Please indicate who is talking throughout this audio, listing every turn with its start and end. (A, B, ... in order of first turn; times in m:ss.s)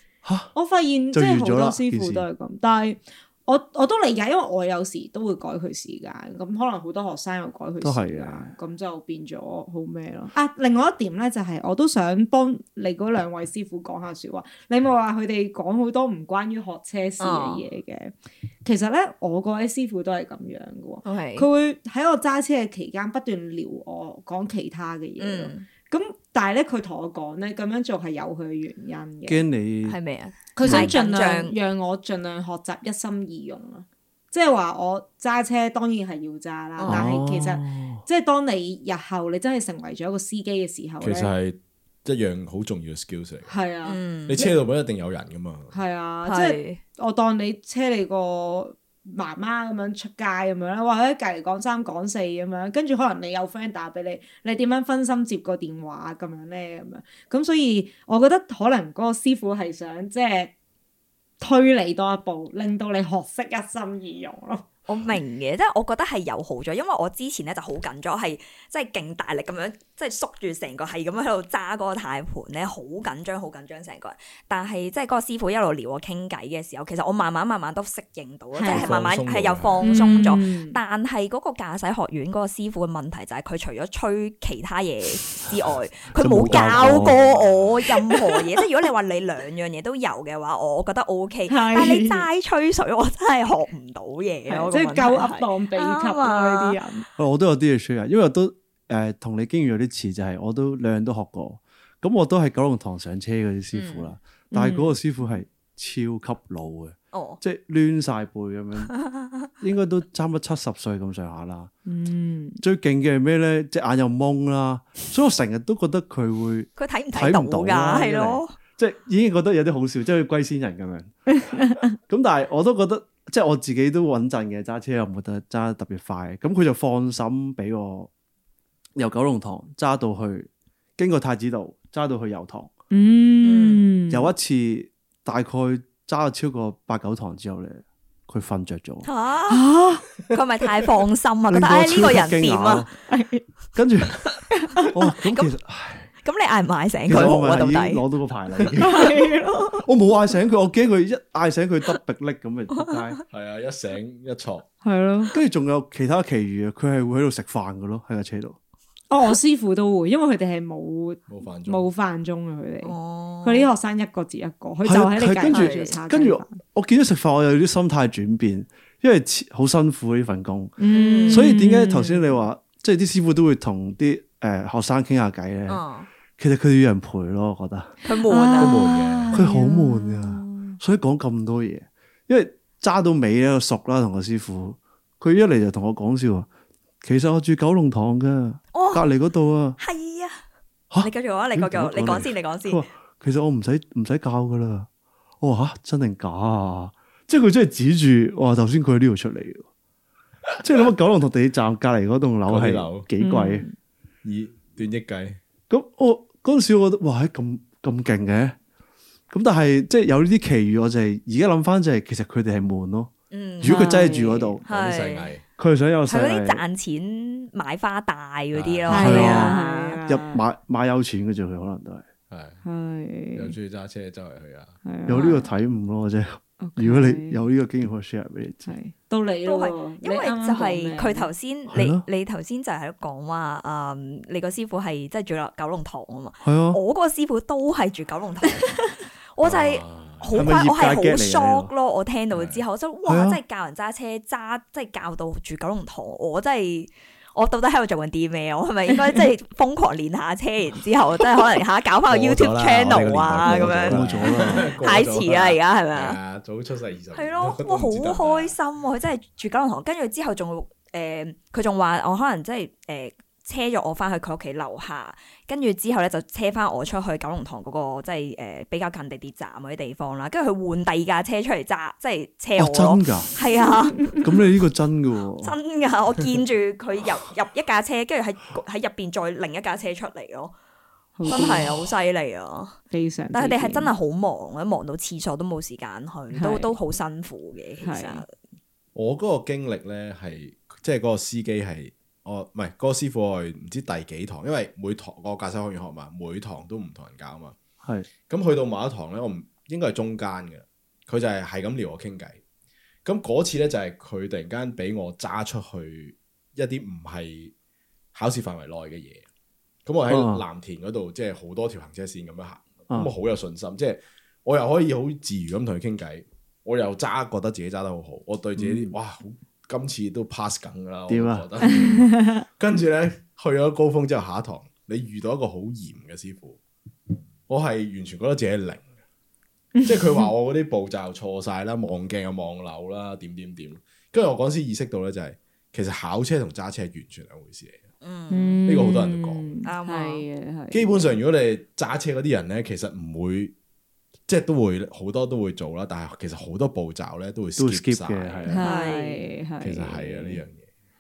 0:00.2-0:00.5 A
0:00.5-0:18.1 B
0:01.1-0:02.2 A
0:07.8-0:08.5 A
0:17.2-0:17.6 C
0:18.6-0:29.4 B
0:21.0-0:21.5 C
0:25.2-0:25.7 C
0:29.3-0:30.0 A
0:29.8-0:31.6 C
0:30.6-0:41.3 B
0:30.6-0:30.9 A
0:36.8-0:37.1 C
0:36.8-0:38.0 A
0:41.0-0:43.5 D
0:43.5-0:44.5 B
0:43.8-0:44.5 C
0:44.3-0:45.8 D
0:45.7-1:00.5 B
0:46.2-0:46.8 C
1:01.4-1:04.6 B
1:04.9-1:36.8 C
1:18.5-1:18.9 B
1:18.7-1:20.1 D
1:19.8-1:20.8 B
1:26.2-1:27.2 A
1:26.4-1:27.7 D
1:31.5-1:32.2 B
1:34.5-1:37.1 B
1:37.2-1:48.9 A
1:43.7-1:44.1 C
1:44.5-1:45.0 B
1:47.1-1:47.4 C
1:49.0-1:49.3 C
1:49.5-1:51.7 A
1:51.8-1:52.6 B
1:52.6-2:01.1 A
1:56.8-1:58.6 C
2:02.1-2:08.1 A
2:09.0-2:12.7 A
2:12.9-2:14.3 B
2:13.4-2:13.9 C
2:14.1-2:19.1 A
2:19.0-2:19.6 C
2:19.5-2:20.1 B
2:20.3-2:22.9 C
2:21.5-2:22.9 A
2:23.1-2:23.4 B
2:23.7-2:24.2 A
2:24.5-2:24.9 B
2:24.8-2:26.1 A
2:25.2-2:25.5 C
2:26.2-2:28.0 C
2:27.0-2:33.2 A
2:28.8-2:29.8 B
2:33.3-2:34.6 D
2:34.8-2:35.3 B
2:35.3-2:38.6 A
2:39.1-2:46.6 B
2:41.3-2:41.9 D
2:42.8-2:43.7 C
2:44.8-2:55.8 A
2:45.5-2:46.0 C
2:50.8-2:52.4 B
2:50.9-2:51.6 C
2:55.7-2:56.1 C
2:56.4-2:57.9 A
2:58.0-2:58.9 C
2:58.3-3:00.8 B
2:58.6-2:59.4 D
2:59.3-3:06.5 A
3:07.0-3:09.8 A
3:08.7-3:09.1 C
3:09.8-3:10.4 C
3:10.9-3:14.9 A
3:11.0-3:12.8 C
3:15.4-3:19.6 A
3:20.6-3:23.6 A
3:22.4-3:23.1 D
3:23.2-3:23.8 B
3:24.2-3:25.4 D
3:25.7-3:28.6 A
3:29.3-3:34.6 A
3:33.3-3:34.1 C
3:33.6-3:34.6 B
3:34.6-3:35.3 C
3:34.6-3:35.4 D
3:35.6-3:36.6 A
3:36.1-3:40.1 C
3:38.5-3:39.2 D
3:38.9-3:40.4 B
3:38.9-3:42.0 A
3:42.3-3:42.6 D
3:42.6-3:43.5 B
3:43.3-3:44.8 D
3:44.8-3:45.5 B
3:45.0-3:48.7 A
3:46.6-3:47.4 B
3:48.6-3:51.3 B
3:49.4-4:16.2 C
3:51.7-3:52.0 A
3:56.4-3:56.8 A
3:59.4-4:00.5 D
4:00.3-4:01.7 A
4:02.3-4:02.6 D
4:03.1-4:03.4 A
4:12.1-4:18.5 D
4:13.6-4:14.8 A
4:17.1-4:34.2 C
4:32.6-4:33.3 A
4:34.2-4:35.5 A
4:35.4-4:40.5 C
4:41.2-4:41.8 B
4:41.2-4:42.8 C
4:42.9-4:43.9 B
4:43.3-4:48.3 C
4:46.3-4:46.7 B
4:47.8-4:48.2 B
4:48.9-4:57.6 D
4:57.8-4:58.1 A
4:58.3-5:02.4 D
5:03.0-5:07.5 D
5:08.1-5:09.2 D
5:09.8-5:26.6 D
5:10.1-5:10.4 A
5:18.6-5:18.9 A
5:21.1-5:21.6 A
5:21.6-5:22.4 B
5:27.1-5:28.9 D
5:29.7-5:30.3 B
5:29.8-5:37.8 D
5:38.0-5:38.6 C
5:38.3-5:41.2 B
5:38.6-5:39.5 D
5:39.6-5:40.2 C
5:40.7-5:43.5 D
5:44.3-5:48.6 D
5:47.6-5:48.6 A
5:48.5-5:50.4 B
5:48.6-5:49.2 C
5:49.6-5:50.6 D